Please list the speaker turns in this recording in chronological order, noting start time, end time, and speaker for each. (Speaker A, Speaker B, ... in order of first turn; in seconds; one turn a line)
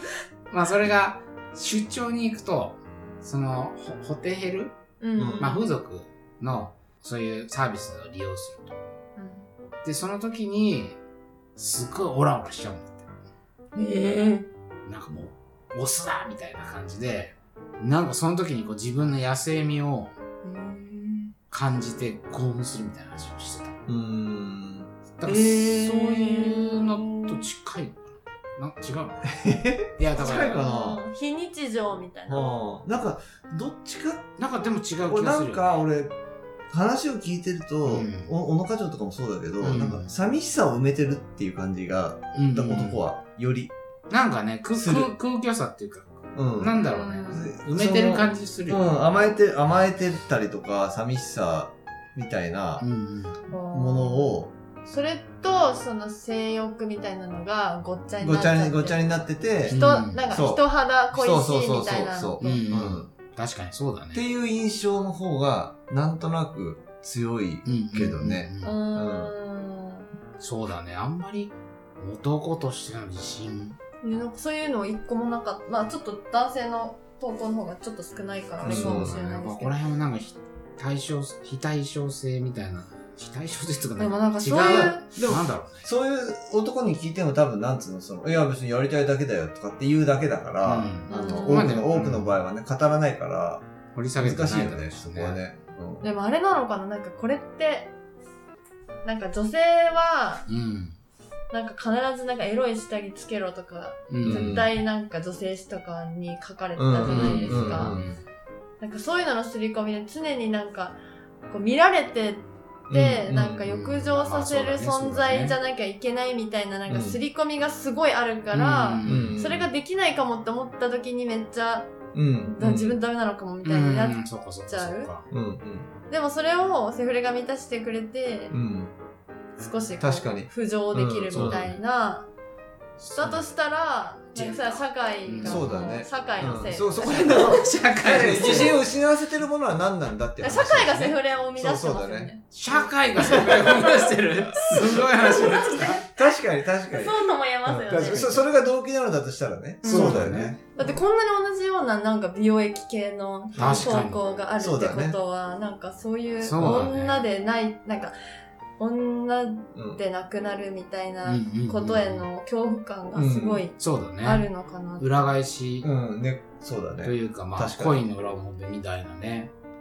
Speaker A: 0.5-4.7
Speaker B: 5.0-5.6
Speaker C: 5.2-5.5
Speaker A: 5.4-8.8
Speaker B: 9.2-9.5
Speaker A: 9.8-11.0
Speaker A: 11.6-13.1
Speaker B: 13.7-14.5
Speaker A: 14.8-20.1
Speaker B: 20.4-21.3
Speaker A: 21.5-23.8
Speaker C: 23.9-24.9
Speaker A: 25.2-30.6
Speaker B: 25.2-27.4
Speaker C: 29.3-31.0
Speaker B: 30.1-32.5
Speaker C: 32.3-34.4
Speaker A: 34.4-35.8
Speaker C: 35.0-36.1
Speaker C: 36.7-43.7
Speaker A: 37.8-38.3
Speaker A: 39.6-40.1
Speaker A: 42.3-43.0
Speaker A: 44.1-49.3
Speaker C: 44.7-45.1
Speaker C: 46.3-52.9
Speaker B: 46.8-47.5
Speaker A: 52.8-53.4
Speaker B: 53.5-62.6
Speaker C: 53.7-54.5
Speaker C: 58.2-63.1
Speaker A: 59.7-60.2
Speaker A: 62.4-64.2
Speaker C: 64.1-69.3
Speaker A: 67.6-68.8
Speaker B: 68.6-70.1
Speaker A: 70.4-73.8
Speaker B: 74.0-79.8
Speaker A: 78.6-85.9
Speaker C: 78.6-79.1
Speaker B: 84.0-85.0
Speaker C: 84.5-93.6
Speaker A: 90.6-92.3
Speaker B: 91.1-91.7
Speaker A: 93.9-95.4
Speaker C: 94.2-96.1
Speaker B: 96.0-97.9
Speaker B: 99.0-100.5
Speaker A: 100.5-101.0
Speaker B: 101.5-108.0
Speaker A: 104.1-104.6
Speaker C: 104.2-104.7
Speaker C: 106.8-108.1
Speaker A: 107.0-108.2
Speaker B: 108.8-111.0
Speaker B: 111.5-121.9
Speaker C: 112.9-113.5
Speaker A: 113.3-115.5
Speaker C: 116.9-117.2
Speaker A: 118.5-119.4
Speaker C: 119.0-119.7
Speaker C: 122.1-123.0
Speaker B: 122.4-125.1
Speaker A: 123.6-125.3
Speaker C: 125.3-125.9
Speaker B: 126.1-128.6
Speaker C: 128.5-128.9
Speaker B: 129.6-132.3
Speaker C: 130.0-131.7
Speaker A: 131.3-131.8
Speaker A: 133.0-133.5
Speaker B: 133.2-137.7
Speaker A: 134.3-138.7
Speaker C: 135.4-142.3
Speaker B: 138.3-138.7
Speaker B: 140.4-142.4
Speaker A: 142.5-146.0
Speaker B: 145.3-145.9
Speaker C: 146.0-151.0
Speaker B: 146.9-148.4
Speaker A: 147.9-148.3
Speaker B: 149.8-158.1
Speaker A: 149.8-150.6
Speaker C: 153.5-153.9
Speaker A: 153.5-154.2
Speaker C: 154.6-155.2
Speaker A: 156.4-157.3
Speaker C: 156.6-156.9
Speaker B: 158.8-165.2
Speaker C: 159.7-160.0
Speaker A: 161.2-162.2
Speaker C: 163.1-163.6
Speaker A: 163.8-164.5
Speaker A: 165.0-165.9
Speaker C: 165.8-168.0
Speaker A: 167.0-169.5